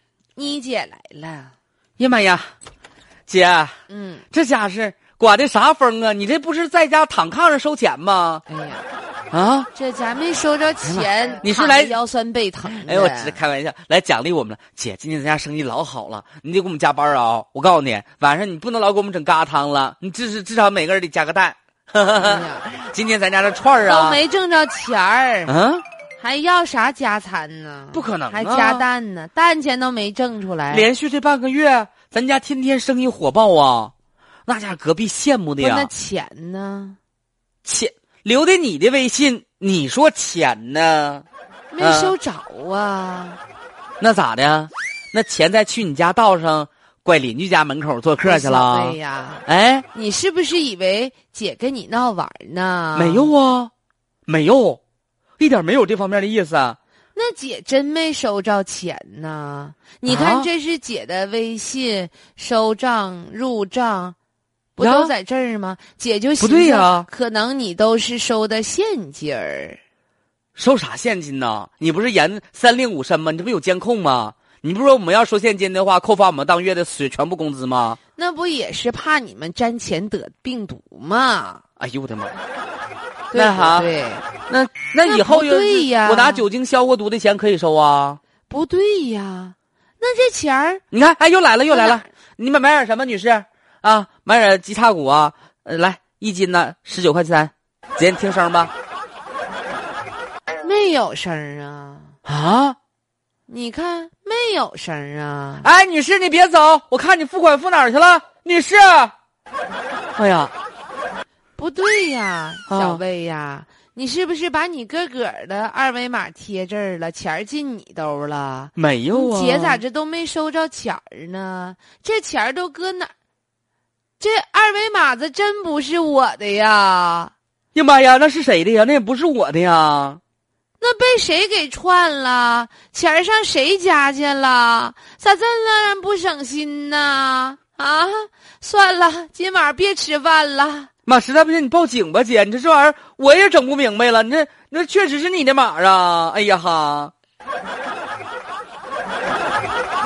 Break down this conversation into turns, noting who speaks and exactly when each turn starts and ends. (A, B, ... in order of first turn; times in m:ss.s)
0:00.4-0:01.5 A
0:02.0-0:02.5 B
0:03.3-0:03.8 B
0:03.9-0:04.2 A
0:04.3-0:08.4 B
0:08.5-0:08.8 A
0:09.3-0:09.7 B
0:09.7-0:13.4 A
0:10.8-0:11.9 B
0:12.6-0:24.2 B
0:22.2-0:22.7 A
0:23.8-0:25.5 A
0:25.5-0:25.8 B
0:26.2-0:30.9 A
0:27.9-0:28.8 B
0:30.7-0:33.9 B
0:34.4-0:35.9 B
0:35.6-0:37.0 A
0:37.6-0:41.2 B
0:41.7-0:43.4 A
0:41.8-0:42.1 B
0:44.0-0:49.8 B
0:48.2-0:53.3 A
0:52.9-0:53.7 B
0:54.3-0:54.8 B
0:55.4-0:56.8 B
0:57.1-1:04.2 A
1:00.0-1:00.5 B
1:04.8-1:09.8 A
1:04.8-1:05.1 B
1:06.4-1:07.1 B
1:10.6-1:18.0 B
1:18.2-1:21.6 A
1:21.8-1:22.4 B
1:23.3-1:24.3 A
1:23.3-1:23.9 B
1:24.5-1:28.2 B
1:25.0-1:26.4 A
1:28.5-1:30.8 A
1:30.9-1:38.7 B
1:31.7-1:32.1 A
1:40.6-1:42.2 A
1:42.2-1:42.8 B
1:43.5-1:45.7 A
1:45.6-1:49.1 B
1:50.2-1:50.5 B
1:51.6-2:03.1 A
1:52.7-1:53.0 B
1:58.8-1:59.8 B
2:04.2-2:07.3 A
2:07.7-2:10.2 B
2:10.8-2:20.9 A
2:21.0-2:27.1 B